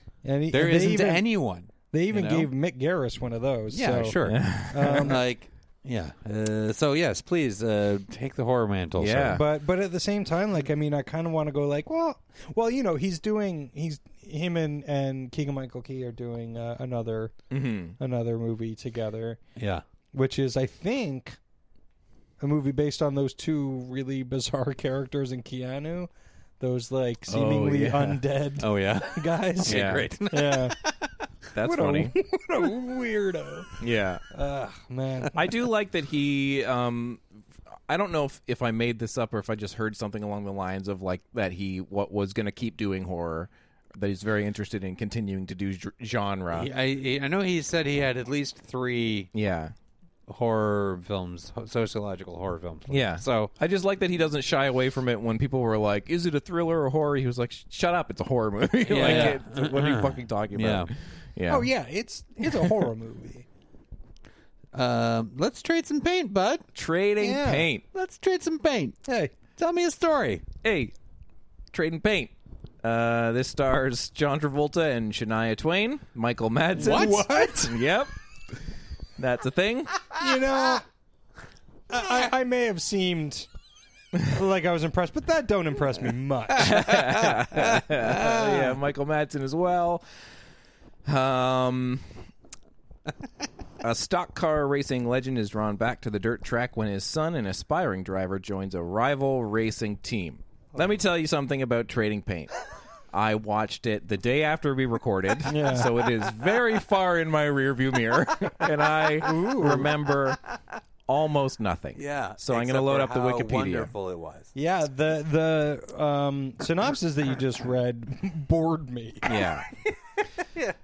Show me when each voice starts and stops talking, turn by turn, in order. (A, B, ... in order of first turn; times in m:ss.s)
0:00.2-0:01.4 A
0:00.5-0:02.5 B
0:01.9-0:04.1 A
0:03.7-0:09.4 B
0:04.3-0:05.1 C
0:04.7-0:05.2 A
0:09.0-0:09.4 C
0:09.3-0:17.3 A
0:17.5-0:18.0 C
0:18.0-0:19.4 A
0:19.6-0:19.8 B
0:20.1-0:21.4 A
0:22.4-0:26.1 A
0:26.6-0:30.8 A
0:27.3-0:28.1 C
0:27.4-0:31.1 B
0:29.6-0:30.1 C
0:31.5-0:32.1 C
0:31.6-0:33.7 A
0:33.8-0:34.2 C
0:34.3-0:35.4 A
0:35.3-0:37.2 C
0:37.9-0:46.7 C
0:46.5-0:49.3 B
0:49.3-0:49.7 C
0:50.3-0:53.5 B
0:52.9-1:01.7 C
0:58.9-1:00.9 B
0:59.0-0:59.3 A
1:01.5-1:03.4 A
1:04.7-1:06.6 B
1:06.7-1:07.8 C
1:07.2-1:07.7 A
1:07.9-1:09.0 B
1:09.0-1:09.3 A
1:09.6-1:10.4 B
1:10.6-1:10.9 C
1:11.7-1:18.1 C
1:16.8-1:17.8 A
1:16.8-1:17.2 B
1:19.2-1:20.1 C
1:20.2-1:20.8 A
1:21.9-1:23.5 A
1:24.3-1:26.7 A
1:26.6-1:27.1 B
1:26.6-1:30.0 C
1:28.0-1:28.7 B
1:31.0-1:32.0 C
1:33.8-1:42.5 C
1:43.1-1:50.4 C
1:45.4-1:45.9 A
1:49.2-1:49.9 A
1:51.1-1:53.9 C
1:52.0-1:54.5 B
1:54.5-1:59.3 A
1:59.3-1:59.6 C